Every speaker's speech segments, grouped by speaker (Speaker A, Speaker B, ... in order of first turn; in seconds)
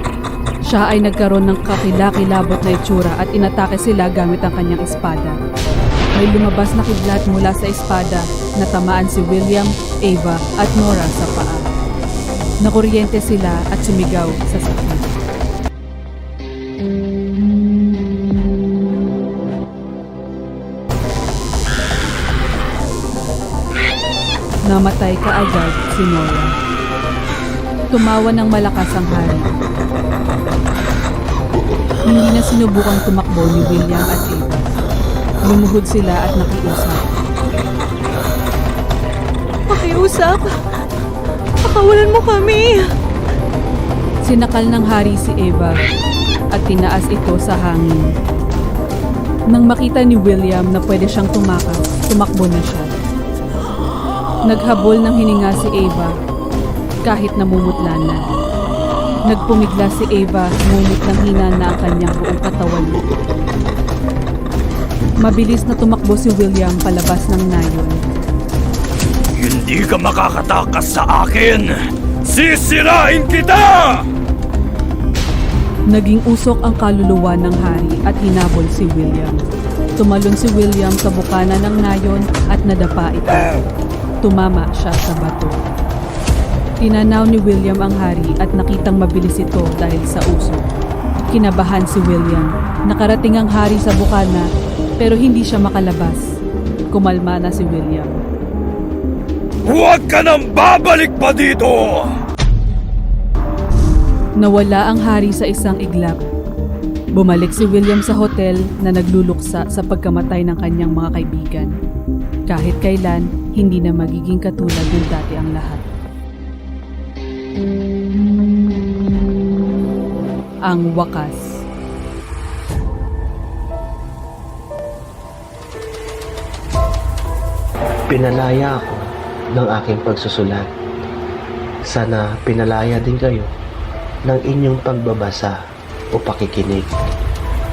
Speaker A: 0.7-5.4, 6.2-11.6, 12.6-15.1, 24.7-26.5, 27.9-29.5, 32.1-34.7, 35.5-37.0, 44.2-45.7, 46.5-48.1, 49.5-52.9, 54.5-56.1, 57.0-58.2, 59.3-63.0, 65.2-68.0, 75.9-79.4, 80.0-83.6, 84.2-85.5, 86.8-90.6, 91.3-94.5, 95.0-96.2, 96.9-98.2, 104.4-106.2, 107.1-111.7, 112.5-115.8, 120.7-121.5
Speaker B: 39.7-40.5, 41.6-42.9
Speaker C: 69.4-71.7, 72.3-74.0, 99.7-102.0
Speaker D: 128.1-130.7, 131.8-133.5, 134.2-135.6, 136.1-136.9